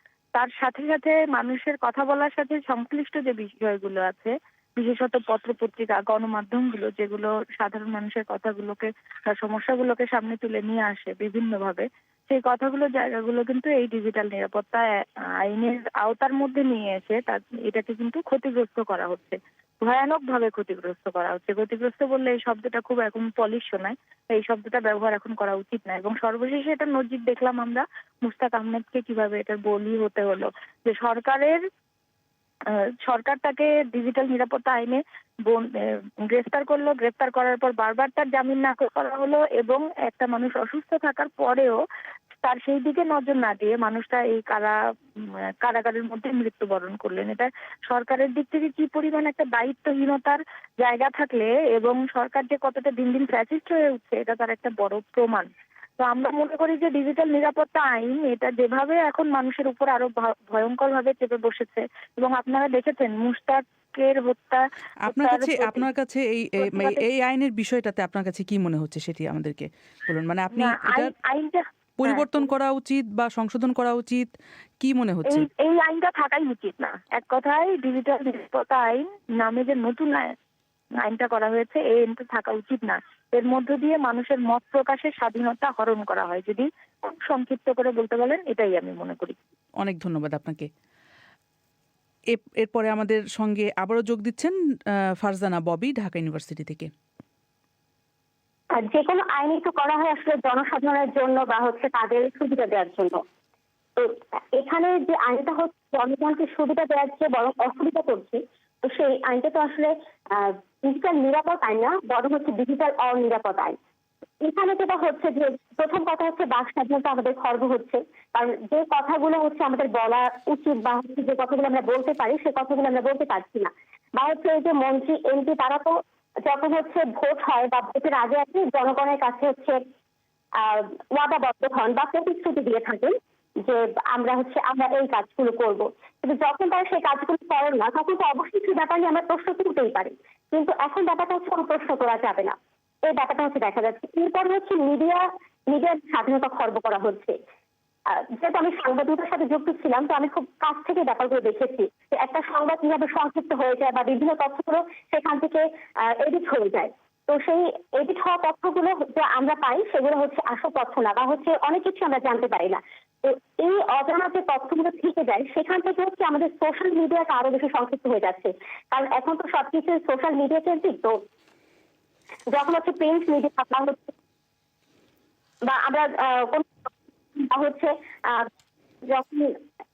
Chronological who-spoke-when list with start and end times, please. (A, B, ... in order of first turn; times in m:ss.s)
0:00.3-0:31.6 A
0:33.0-0:35.7 A
0:36.2-0:41.8 A
0:42.4-0:55.5 A
0:56.0-1:05.9 A
1:05.1-1:11.1 B
1:06.6-1:07.0 A
1:10.5-1:12.5 A
1:12.0-1:14.3 B
1:14.8-1:15.5 B
1:15.3-1:20.3 A
1:21.0-1:29.4 A
1:29.8-1:30.7 B
1:32.3-1:34.5 B
1:35.2-1:36.9 B
1:38.7-1:43.2 C
1:44.0-1:53.8 C
1:54.4-2:09.8 C
2:10.6-2:27.4 C
2:28.1-2:51.2 C
2:52.5-2:54.1 C
2:55.6-2:58.5 C
2:59.1-2:59.6 C